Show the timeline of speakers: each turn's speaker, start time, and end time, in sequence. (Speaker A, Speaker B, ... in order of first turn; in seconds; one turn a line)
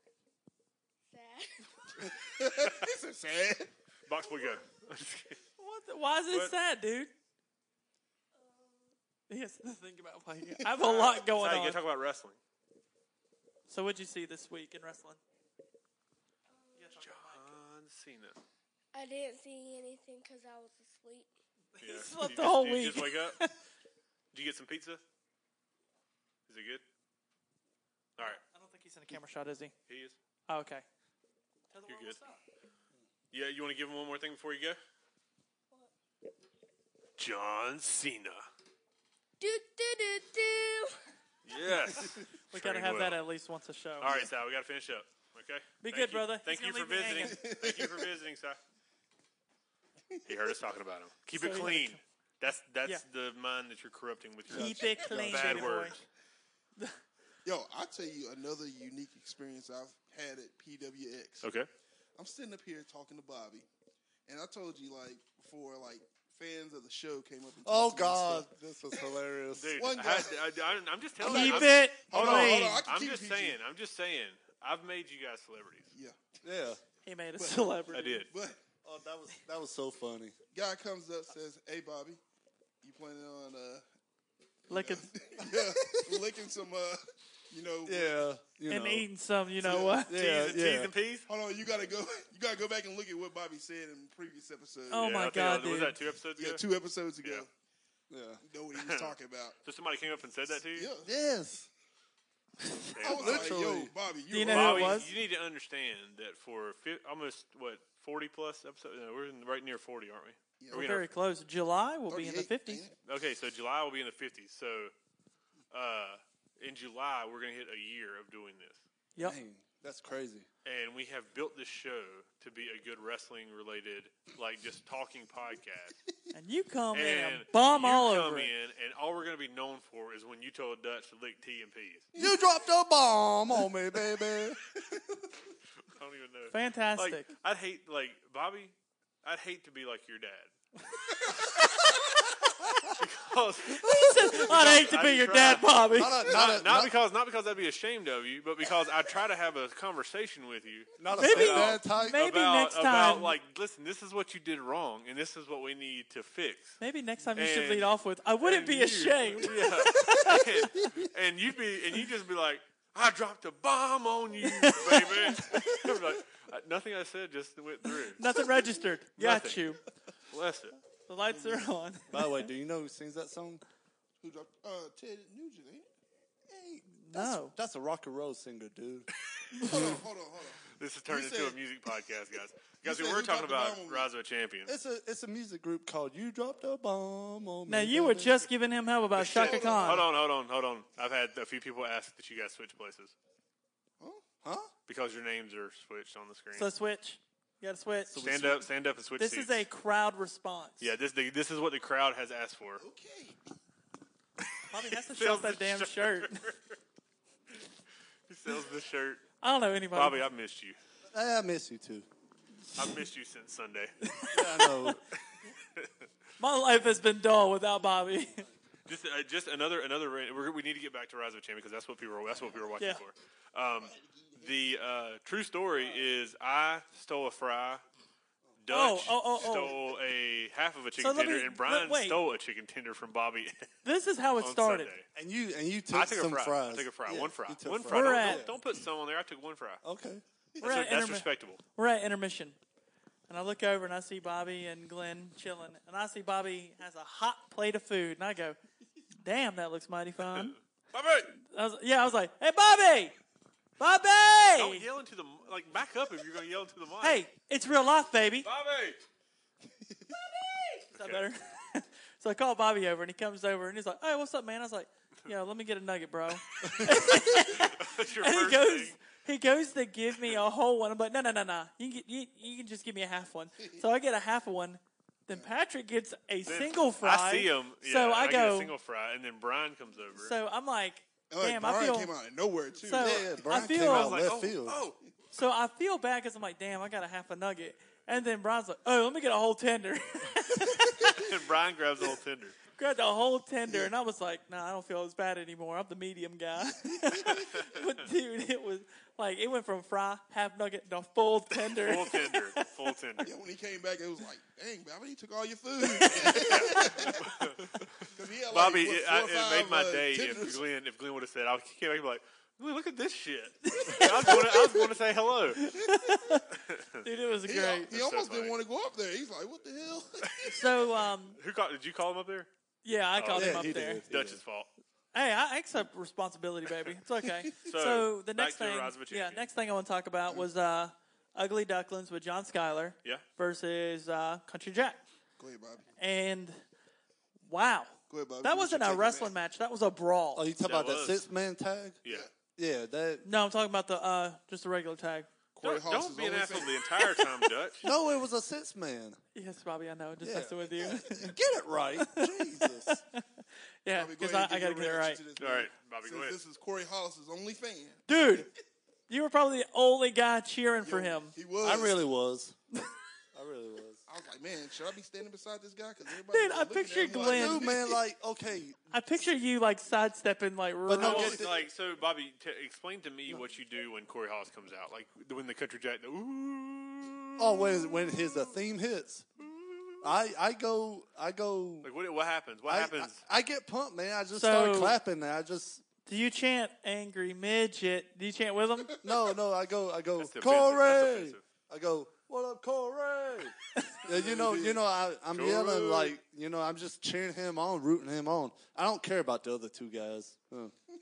Speaker A: 1.1-2.2
Speaker B: 2.0-3.7
Speaker C: 4.0-5.4
Speaker D: 5.6-7.1
Speaker A: 8.3-8.9
Speaker D: 9.3-11.8
Speaker C: 10.8-12.4
Speaker D: 13.7-15.2
Speaker A: 16.5-17.1
Speaker D: 16.8-17.5
Speaker C: 17.0-18.4
Speaker A: 18.9-21.3
Speaker D: 21.7-23.5
Speaker C: 21.8-23.4
Speaker C: 24.3-25.0
Speaker C: 26.5-26.8
Speaker D: 28.2-29.7
Speaker C: 29.9-30.1
Speaker D: 30.5-30.8
Speaker D: 31.7-32.4
Speaker C: 31.9-32.2
Speaker C: 33.3-34.8
Speaker C: 37.2-38.4
Speaker A: 39.4-41.0
Speaker C: 41.5-43.2
Speaker D: 42.5-44.1
Speaker C: 44.0-48.6
Speaker B: 44.0-44.3
Speaker D: 45.8-47.4
Speaker B: 47.2-48.1
Speaker C: 50.2-56.0
Speaker D: 51.3-52.0
Speaker D: 54.5-56.0
Speaker E: 54.7-55.6
Speaker B: 57.4-61.5
Speaker C: 61.4-61.7
Speaker B: 62.1-63.7
Speaker B: 64.3-69.1
Speaker E: 67.6-69.8
Speaker C: 69.5-75.9
Speaker B: 69.7-70.4
Speaker B: 71.2-73.6
Speaker D: 71.2-72.8
Speaker B: 75.9-76.3
Speaker E: 76.4-76.8
Speaker D: 77.0-78.2
Speaker B: 77.4-78.6
Speaker C: 77.9-78.3
Speaker E: 78.8-80.3
Speaker B: 80.5-82.2
Speaker B: 82.8-83.8
Speaker D: 84.7-85.1
Speaker B: 84.7-88.2
Speaker E: 87.8-89.1
Speaker D: 88.7-90.1
Speaker B: 89.6-90.1
Speaker E: 90.1-90.9
Speaker C: 90.1-91.3
Speaker B: 91.3-95.2
Speaker D: 94.9-96.0
Speaker C: 95.0-96.6
Speaker B: 96.3-97.5
Speaker E: 98.1-98.4
Speaker B: 98.4-99.6
Speaker C: 98.8-99.1
Speaker C: 99.6-100.9
Speaker B: 100.7-101.1
Speaker E: 101.0-101.7
Speaker C: 102.9-103.5
Speaker B: 103.0-105.1
Speaker E: 103.0-103.9
Speaker D: 104.3-105.1
Speaker C: 104.5-111.1
Speaker B: 110.6-110.9
Speaker D: 110.7-112.9
Speaker B: 112.1-113.0
Speaker C: 113.0-114.9
Speaker C: 115.7-118.8
Speaker E: 119.2-120.5
Speaker C: 120.6-126.0
Speaker D: 126.3-128.5
Speaker C: 126.9-132.1
Speaker E: 132.2-134.6
Speaker C: 135.8-140.5
Speaker D: 136.5-137.3
Speaker C: 141.5-141.9
Speaker C: 143.0-156.8
Speaker D: 143.8-146.3
Speaker E: 143.8-146.9
Speaker E: 151.0-152.2
Speaker D: 151.2-153.3
Speaker D: 156.8-160.6
Speaker C: 157.3-168.2
Speaker D: 164.4-165.9
Speaker D: 168.0-169.8
Speaker C: 169.2-169.6
Speaker C: 170.3-170.8
Speaker D: 171.1-172.5
Speaker B: 171.2-171.7
Speaker E: 172.1-173.6
Speaker B: 174.2-175.9
Speaker E: 176.5-179.1
Speaker D: 177.0-177.5
Speaker D: 179.5-179.9
Speaker B: 179.6-181.6
Speaker C: 180.8-184.7
Speaker B: 182.8-184.1
Speaker E: 184.7-188.4
Speaker D: 187.7-190.0
Speaker C: 189.2-193.1
Speaker B: 189.2-190.1
Speaker B: 194.0-194.2
Speaker E: 194.4-194.7
Speaker C: 194.9-196.7
Speaker D: 196.6-198.2
Speaker E: 198.1-198.7
Speaker C: 198.1-199.6
Speaker D: 199.2-200.9
Speaker C: 200.8-202.8
Speaker B: 202.8-203.4
Speaker D: 204.7-206.4
Speaker C: 205.1-206.7
Speaker C: 208.3-209.2
Speaker D: 209.4-210.3
Speaker C: 209.9-210.8
Speaker E: 211.1-212.1
Speaker C: 212.8-213.9
Speaker D: 214.0-215.0
Speaker E: 214.3-215.0
Speaker D: 216.4-218.4
Speaker C: 218.8-227.8
Speaker B: 223.8-224.5
Speaker C: 228.6-233.7
Speaker D: 228.7-229.8
Speaker D: 231.0-232.2
Speaker D: 233.8-234.9
Speaker C: 234.4-235.1
Speaker E: 235.1-238.5
Speaker C: 235.9-239.8
Speaker D: 237.9-238.5
Speaker E: 239.8-240.2
Speaker C: 240.6-241.6
Speaker D: 240.6-242.6
Speaker D: 243.3-248.6
Speaker D: 249.2-250.6
Speaker C: 250.2-251.3
Speaker D: 251.4-253.2
Speaker D: 253.8-254.8
Speaker C: 254.6-257.2
Speaker D: 257.0-258.5
Speaker C: 258.4-259.0
Speaker D: 260.1-278.7
Speaker C: 260.9-261.2
Speaker C: 266.6-269.0
Speaker C: 276.4-280.3
Speaker D: 280.1-282.1
Speaker B: 281.3-283.4
Speaker D: 282.8-284.2
Speaker E: 283.0-284.8
Speaker C: 283.6-285.0
Speaker D: 285.3-291.2
Speaker C: 291.0-292.6
Speaker D: 292.8-302.9
Speaker C: 297.3-297.9
Speaker C: 301.6-303.3
Speaker B: 303.2-307.2
Speaker D: 305.8-307.1
Speaker C: 306.1-315.7
Speaker B: 308.1-310.6
Speaker D: 313.6-314.9
Speaker D: 315.5-316.5
Speaker C: 316.5-317.0
Speaker D: 317.0-317.9
Speaker B: 317.4-320.6
Speaker C: 317.9-318.5
Speaker C: 320.2-320.5
Speaker D: 320.4-321.4
Speaker C: 321.3-322.5
Speaker D: 322.8-324.0
Speaker C: 323.2-324.7
Speaker E: 323.3-324.4
Speaker D: 325.1-335.0
Speaker C: 327.6-329.5
Speaker B: 335.4-335.9
Speaker D: 336.0-336.6
Speaker D: 337.4-340.4
Speaker B: 338.1-339.3
Speaker E: 340.4-342.0
Speaker C: 340.6-341.2
Speaker C: 342.0-342.3
Speaker B: 342.1-342.3
Speaker E: 342.6-343.2
Speaker D: 343.2-345.3
Speaker B: 345.5-346.9
Speaker C: 345.6-347.9
Speaker E: 347.8-349.2
Speaker D: 349.3-351.3
Speaker E: 350.2-353.0
Speaker D: 352.0-353.2
Speaker D: 353.8-355.2
Speaker B: 353.9-358.2
Speaker C: 355.4-356.4
Speaker D: 358.1-358.5
Speaker D: 359.1-361.3
Speaker B: 360.8-362.0
Speaker E: 361.6-362.6
Speaker E: 363.3-364.0
Speaker B: 364.1-368.0
Speaker D: 366.3-367.7
Speaker E: 367.2-368.8
Speaker D: 368.9-371.4
Speaker E: 370.9-371.5
Speaker C: 371.0-378.5
Speaker E: 377.4-379.3
Speaker C: 379.6-379.9
Speaker E: 380.0-381.9
Speaker C: 381.8-383.2
Speaker E: 382.7-385.8
Speaker D: 384.3-385.0
Speaker D: 386.1-389.0
Speaker E: 389.0-400.7
Speaker C: 390.2-391.4
Speaker B: 394.0-394.8
Speaker C: 395.3-396.1